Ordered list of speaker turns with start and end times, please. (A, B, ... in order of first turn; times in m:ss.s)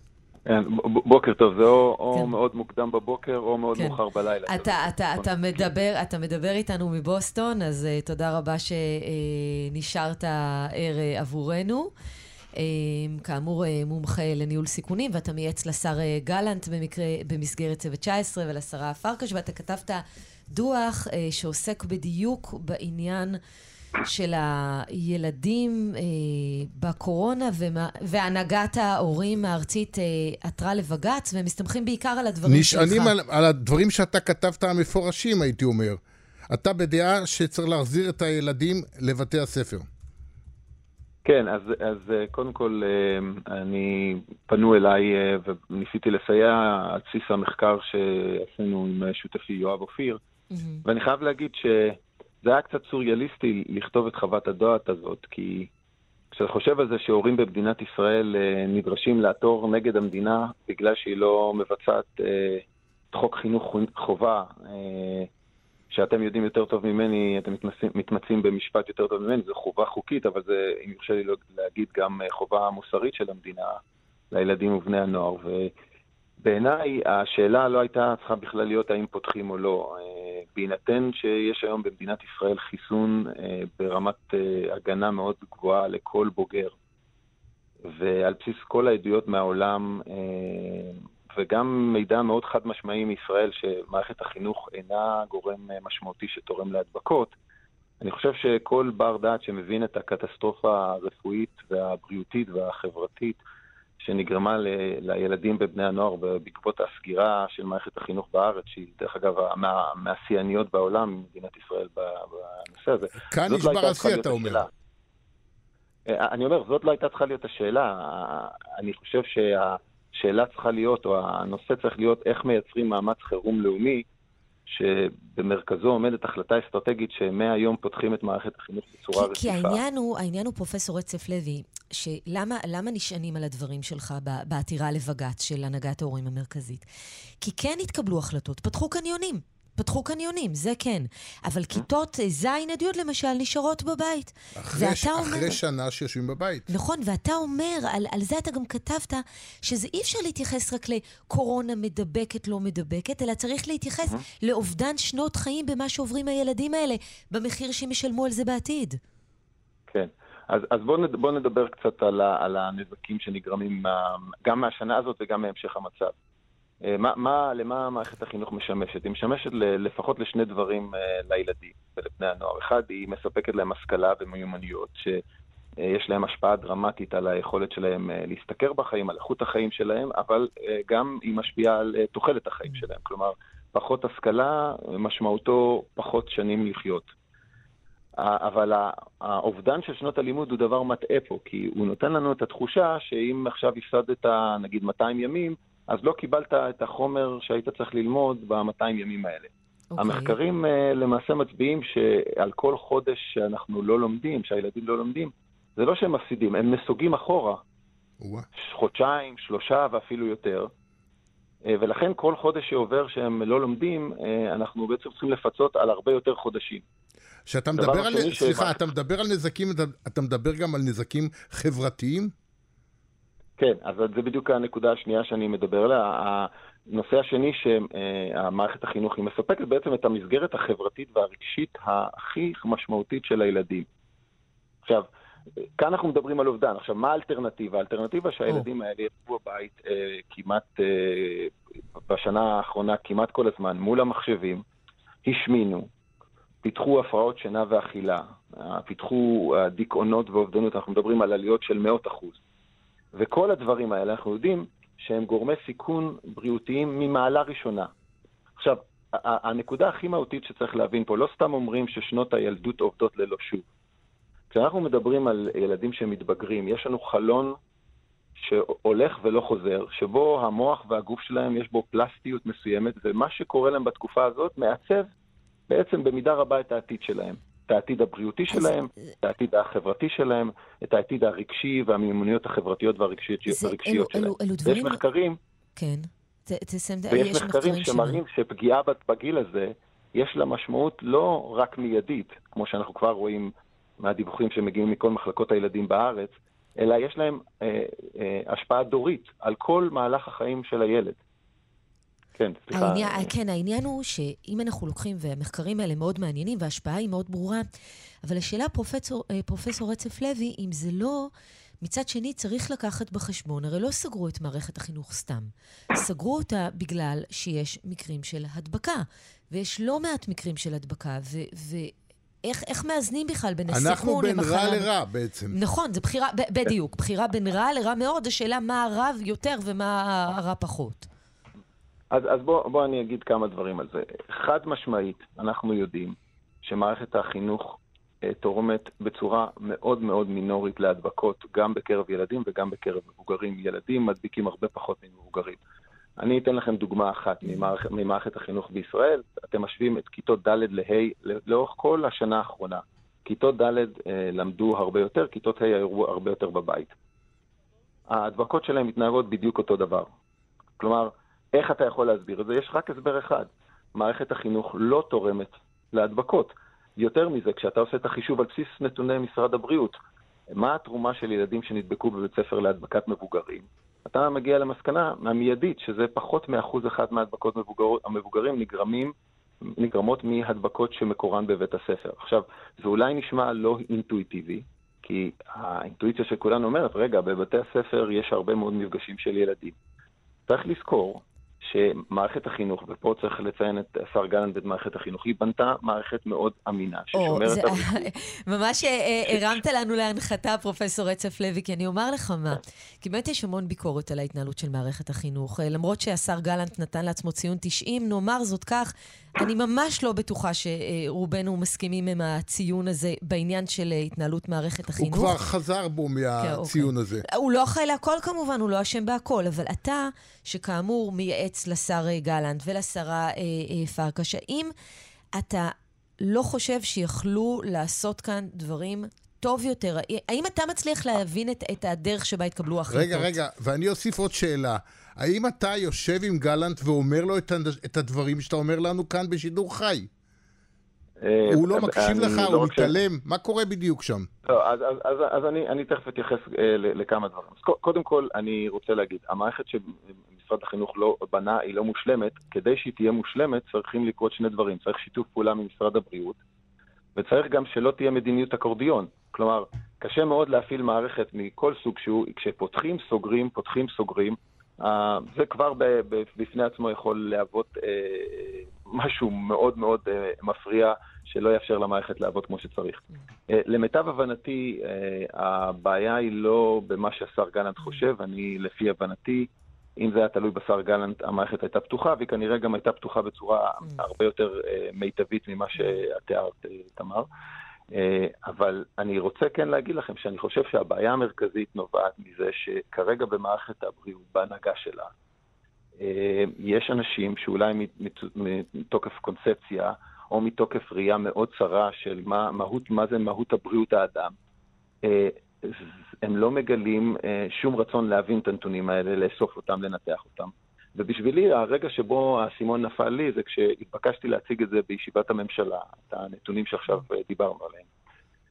0:00.4-0:05.7 A
0:03.8-0:11.9 B
0:12.6-0:23.4 B
0:24.0-0:33.1 B
0:32.5-0:39.8 C
0:41.2-0:50.2 A
0:50.5-0:50.8 B
0:50.8-0:55.7 A
0:56.3-1:05.3 A
1:05.9-1:13.8 A
1:14.3-1:15.7 A
1:16.4-1:26.7 A
1:27.8-1:37.3 A
1:38.0-1:43.4 A
1:44.0-1:54.7 A
1:53.3-1:54.6 C
1:56.1-2:04.0 A
2:04.7-2:09.8 A
2:09.1-2:16.8 B
2:17.4-2:25.6 B
2:24.6-2:26.7 C
2:26.7-2:39.0 B
2:39.9-2:46.1 A
2:46.8-2:55.2 A
2:55.8-3:07.1 A
3:08.2-3:27.6 A
3:19.9-3:20.4 B
3:28.6-3:30.7 A
3:31.6-3:36.8 A
3:37.5-3:42.3 C
3:37.7-3:38.8 A
3:43.6-3:53.8 A
3:55.8-4:01.5 A
4:02.1-4:04.6 A
4:05.2-4:05.9 A
4:06.6-4:12.4 A
4:13.1-4:17.9 A
4:18.6-4:23.6 A
4:24.5-4:27.6 A
4:28.4-4:35.1 A
4:35.7-4:45.4 A
4:43.5-4:45.0 B
4:45.8-4:48.2 B
4:47.1-5:01.2 A
5:02.4-5:03.3 A
5:02.7-5:07.6 B
5:08.2-5:21.9 B
5:22.4-5:24.9 B
5:23.7-5:25.6 C
5:25.5-5:31.1 B
5:32.1-5:45.6 A
5:46.2-5:56.9 A
5:47.4-5:47.7 B
5:58.1-6:00.1 A
6:00.8-6:10.0 A
6:10.5-6:19.1 A
6:19.7-6:29.8 A
6:30.5-6:38.1 A
6:37.1-6:55.4 B
6:55.0-6:57.2 C
6:56.4-7:04.7 B
7:05.3-7:13.4 B
7:12.9-7:20.1 C
7:21.2-7:22.9 A
7:21.5-7:24.3 C
7:24.5-7:36.4 A
7:37.2-8:07.3 A
8:07.9-8:15.1 A
8:16.0-8:24.3 A
8:25.0-8:37.9 A